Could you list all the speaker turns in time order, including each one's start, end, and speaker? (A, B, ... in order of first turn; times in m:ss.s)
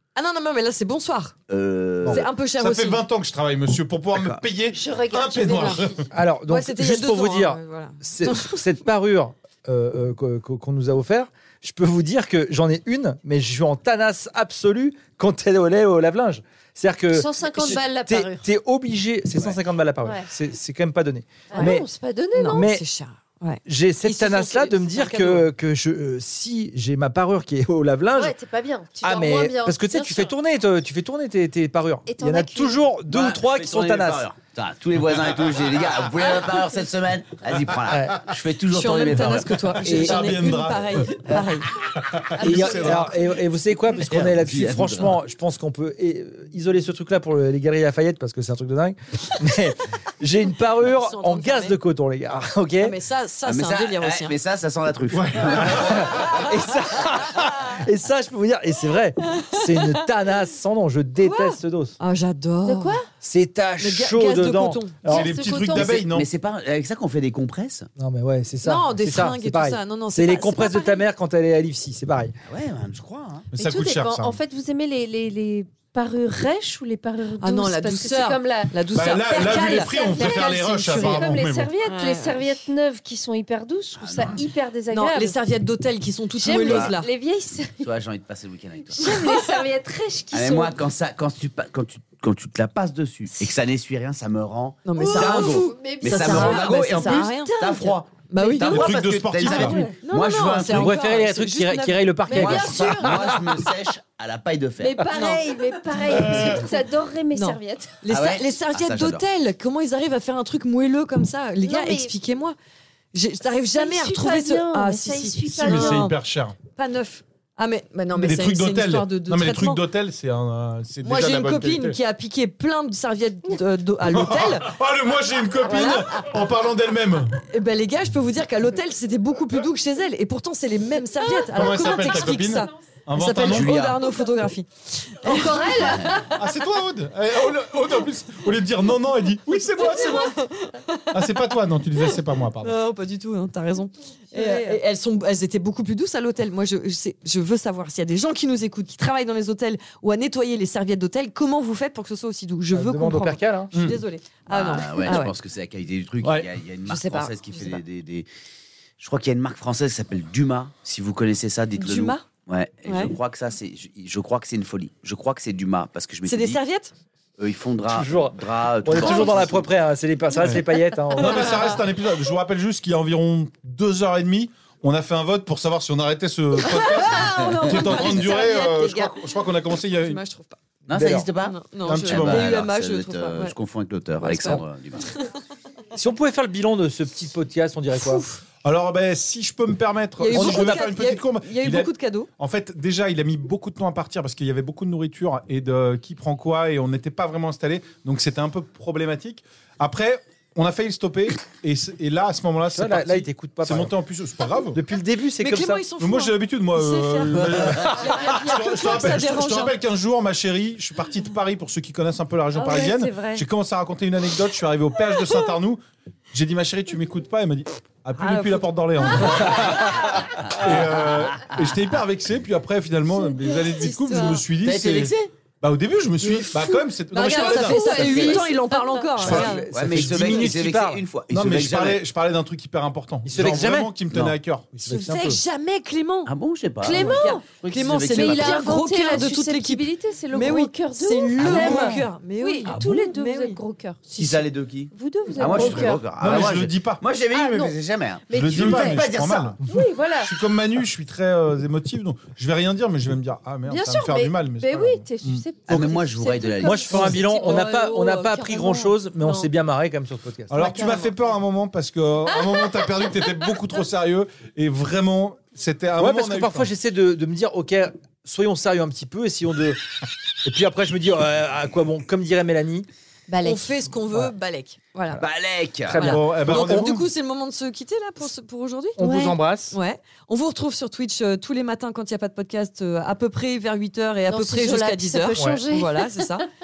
0:00.1-0:01.4 A
0:01.5-0:02.2 B
0:02.0-0:06.0 C
0:02.1-0:03.0 A
0:04.1-0:04.4 B
0:04.7-0:06.0 D
0:05.4-0:05.8 A
0:06.1-0:21.8 E
0:06.5-0:08.7 A
0:17.1-0:18.5 D
0:21.5-0:22.6 D
0:22.3-0:25.5 A
0:22.5-0:22.8 E
0:23.6-0:28.3 E
0:28.1-0:30.3 D
0:29.0-0:34.2 E
0:32.0-0:32.9 D
0:33.0-0:39.8 B
0:37.9-0:38.2 E
0:38.7-0:41.7 A
0:39.8-0:43.1 C
0:39.9-0:40.5 E
0:42.3-0:43.4 D
0:42.4-0:52.9 E
0:43.9-0:45.2 B
0:50.8-0:51.8 A
0:52.8-0:54.4 A
0:53.4-0:56.0 B
0:55.1-0:56.4 C
0:55.6-1:02.0 E
0:59.4-1:00.0 A
1:01.2-1:03.0 A
1:02.6-1:03.1 D
1:03.2-1:05.3 E
1:03.8-1:05.0 A
1:05.0-1:06.0 D
1:05.0-1:06.3 C
1:05.7-1:07.9 B
1:08.0-1:12.3 E
1:08.6-1:11.0 A
1:12.4-1:13.5 B
1:13.5-1:14.4 C
1:13.6-1:25.4 D
1:17.4-1:21.3 A
1:18.9-1:21.7 C
1:21.8-1:22.6 A
1:24.0-1:24.4 B
1:24.9-1:27.1 A
1:26.4-1:27.9 D
1:26.5-1:27.0 B
1:27.8-1:29.2 B
1:29.0-1:30.8 D
1:29.0-1:29.5 A
1:30.3-1:41.0 B
1:34.8-1:42.5 A
1:35.0-1:37.9 D
1:38.6-1:39.8 C
1:40.7-1:43.4 E
1:42.3-1:43.4 D
1:42.3-1:45.1 B
1:44.8-1:48.0 D
1:45.1-1:45.4 A
1:46.1-1:46.6 C
1:46.3-1:46.6 B
1:47.3-1:52.6 A
1:48.1-1:49.2 B
1:51.6-1:52.1 D
1:53.1-1:56.2 A
1:53.7-1:56.1 D
1:55.4-1:56.6 C
1:56.7-1:59.8 A
1:58.1-2:02.0 C
2:01.0-2:04.7 A
2:04.0-2:07.4 C
2:05.6-2:06.2 A
2:07.5-2:16.2 A
2:11.5-2:13.9 C
2:13.4-2:14.0 B
2:15.2-2:16.3 D
2:16.3-2:20.4 C
2:19.8-2:21.2 A
2:21.1-2:22.8 C
2:22.6-2:35.3 A
2:24.3-2:24.7 E
2:32.7-2:33.7 E
2:33.7-2:34.0 C
2:34.5-2:38.3 B
2:36.2-2:36.5 C
2:36.8-2:37.8 A
2:39.0-2:46.6 B
2:41.8-2:42.2 A
2:42.8-2:43.1 A
2:46.2-2:46.9 A
2:47.4-2:49.7 B
2:47.9-2:51.7 E
2:49.0-2:49.4 A
2:50.3-2:51.6 A
2:50.4-3:00.2 C
2:56.5-3:00.6 A
3:00.8-3:05.1 B
3:00.9-3:01.3 E
3:01.4-3:03.6 A
3:01.8-3:02.6 C
3:04.2-3:05.2 A
3:05.9-3:08.2 E
3:07.9-3:08.4 A
3:08.6-3:24.8 C
3:10.2-3:12.3 A
3:10.3-3:10.9 E
3:22.7-3:23.9 E
3:24.7-3:25.8 E
3:25.4-3:29.8 A
3:26.0-3:48.4 C
3:27.6-3:27.9 B
3:32.5-3:33.4 A
3:38.2-3:39.2 A
3:40.4-3:41.7 B
3:43.4-3:44.4 A
3:44.6-3:45.3 B
3:46.6-3:49.7 A
3:47.1-3:48.8 D
3:48.0-3:48.3 B
3:49.2-3:50.7 C
3:49.2-3:51.0 E
3:49.7-3:52.0 B
3:51.3-3:54.7 C
3:53.2-3:53.9 E
3:54.1-3:54.4 B
3:54.7-3:55.4 E
3:54.8-3:56.3 A
3:56.2-3:58.7 B
3:56.8-3:57.5 D
3:56.9-4:03.6 A
3:58.1-4:06.4 D
4:01.4-4:01.8 B
4:02.7-4:03.0 B
4:04.2-4:09.6 B
4:05.4-4:07.0 C
4:07.3-4:07.8 D
4:08.3-4:09.1 D
4:08.3-4:09.6 C
4:09.6-4:09.9 E
4:09.6-4:10.3 D
4:10.2-4:15.4 C
4:13.7-4:19.0 D
4:15.7-4:17.3 B
4:16.6-4:20.8 E
4:16.9-4:17.2 C
4:20.5-4:26.7 C
4:20.6-4:21.1 A
4:26.0-4:29.8 E
4:30.4-4:32.9 E
4:33.3-4:35.2 A
4:33.3-4:33.6 D
4:35.2-4:36.1 B
4:35.8-4:36.9 E
4:35.9-4:39.0 A
4:36.0-4:37.1 C
4:39.0-4:39.8 E
4:39.0-4:39.4 D
4:39.7-4:46.5 A
4:44.3-4:46.4 D
4:45.4-4:45.6 E